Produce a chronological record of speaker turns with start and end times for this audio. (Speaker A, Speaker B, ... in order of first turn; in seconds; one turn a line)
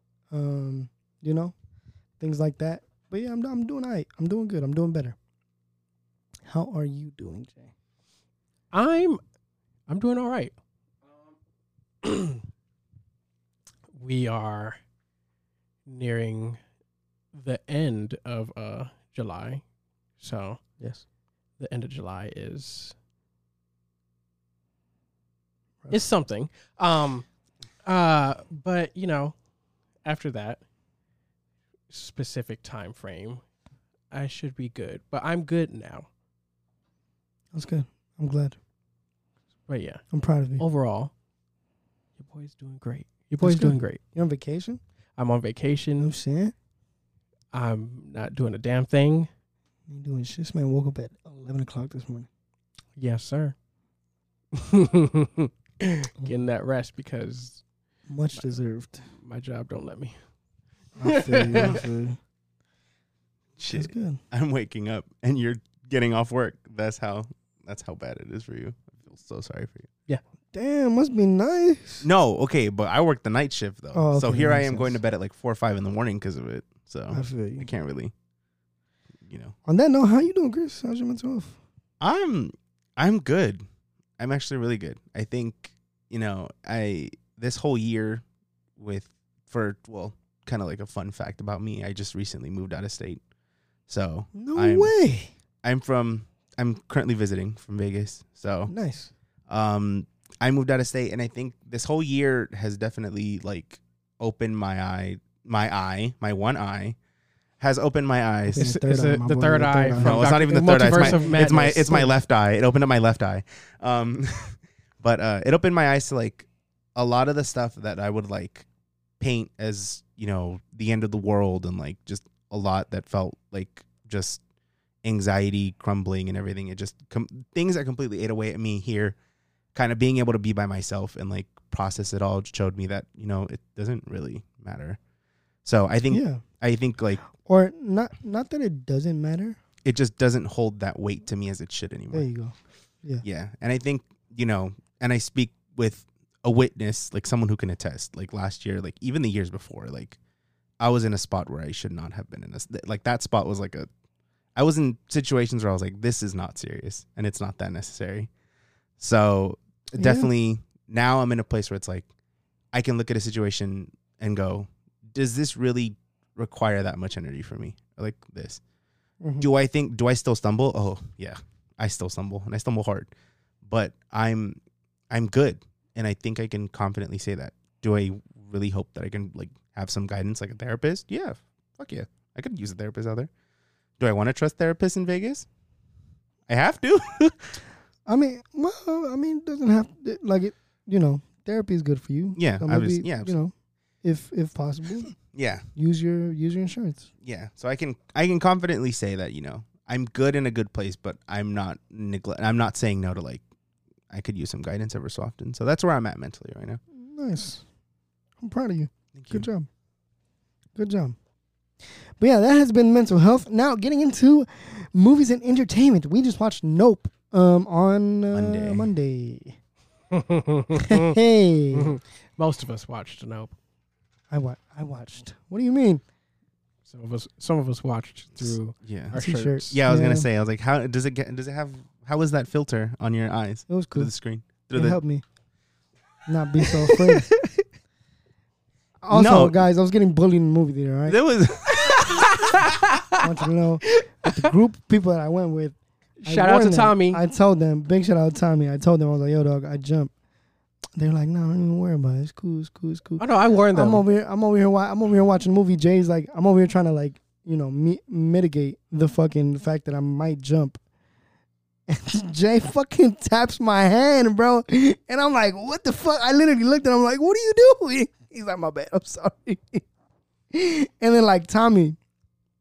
Speaker A: 0.3-1.5
Speaker A: 2.2-5.2
Speaker A: 6.5-7.7
Speaker B: 8.7-9.2
Speaker B: 9.9-10.5
Speaker B: 12.0-12.4
Speaker B: 13.9-14.8
Speaker B: 15.9-16.6
Speaker B: 17.3-19.6
Speaker B: 20.2-20.9
Speaker B: 21.6-22.9
Speaker A: 25.8-26.1
Speaker B: 25.9-27.3
Speaker B: 27.8-29.3
Speaker B: 30.1-30.6
Speaker B: 31.9-33.4
Speaker B: 34.1-36.1
Speaker A: 37.5-38.6
Speaker B: 39.7-40.1
Speaker A: 40.1-40.6
Speaker B: 40.6-41.1
Speaker B: 42.2-44.0
Speaker A: 43.4-44.8
Speaker B: 45.2-46.1
Speaker A: 46.0-46.5
Speaker B: 47.5-49.3
Speaker A: 49.9-52.3
Speaker B: 53.0-53.5
Speaker B: 54.5-57.6
Speaker A: 58.1-59.0
Speaker B: 59.2-60.1
Speaker A: 61.0-62.2
Speaker B: 61.0-61.8
Speaker C: 63.6-69.9
Speaker A: 63.7-64.2
Speaker A: 70.5-72.1
Speaker C: 72.0-78.1
Speaker A: 73.9-75.0
Speaker A: 77.1-77.7
Speaker C: 79.3-79.5
Speaker A: 79.7-81.6
Speaker C: 82.0-83.7
Speaker C: 84.2-88.2
Speaker C: 88.8-93.2
Speaker C: 93.9-94.9
Speaker A: 94.3-95.3
Speaker C: 95.6-98.7
Speaker A: 98.7-99.1
Speaker C: 99.5-107.0
Speaker C: 107.6-108.7
Speaker B: 108.5-112.1
Speaker A: 108.5-110.3
Speaker C: 110.0-118.7
Speaker A: 110.8-112.1
Speaker C: 119.2-124.4
Speaker C: 125.0-129.2
Speaker C: 129.7-135.0
Speaker C: 135.6-137.2
Speaker A: 136.1-136.4
Speaker A: 137.4-139.6
Speaker C: 139.8-142.3
Speaker A: 142.1-143.2
Speaker C: 143.2-150.2
Speaker C: 150.8-153.9
Speaker C: 154.6-158.3
Speaker C: 159.0-162.1
Speaker A: 159.9-160.3
Speaker C: 162.7-168.6
Speaker A: 169.2-169.5
Speaker C: 169.4-173.1
Speaker C: 173.7-174.6
Speaker C: 175.1-183.3
Speaker C: 184.0-185.5
Speaker C: 186.5-187.6
Speaker A: 188.1-195.2
Speaker C: 192.4-193.4
Speaker C: 195.3-195.7
Speaker A: 195.8-197.1
Speaker C: 197.2-203.4
Speaker C: 204.1-206.8
Speaker A: 206.9-207.6
Speaker A: 208.4-209.7
Speaker C: 209.1-209.5
Speaker A: 210.8-211.2
Speaker A: 212.2-219.6
Speaker C: 218.3-218.9
Speaker B: 220.1-221.1
Speaker A: 220.8-222.0
Speaker B: 221.7-223.5
Speaker A: 224.3-226.0
Speaker B: 226.9-229.8
Speaker C: 228.8-229.2
Speaker A: 229.1-230.3
Speaker C: 229.7-235.0
Speaker A: 233.7-234.1
Speaker A: 234.7-235.2
Speaker A: 236.3-237.4
Speaker A: 239.0-241.2
Speaker C: 239.1-239.6
Speaker C: 241.1-242.3
Speaker B: 241.7-243.3
Speaker A: 243.2-250.1
Speaker B: 243.9-244.5
Speaker B: 246.2-247.2
Speaker A: 251.0-260.8
Speaker B: 253.2-254.0
Speaker A: 261.9-269.9
Speaker A: 270.5-272.0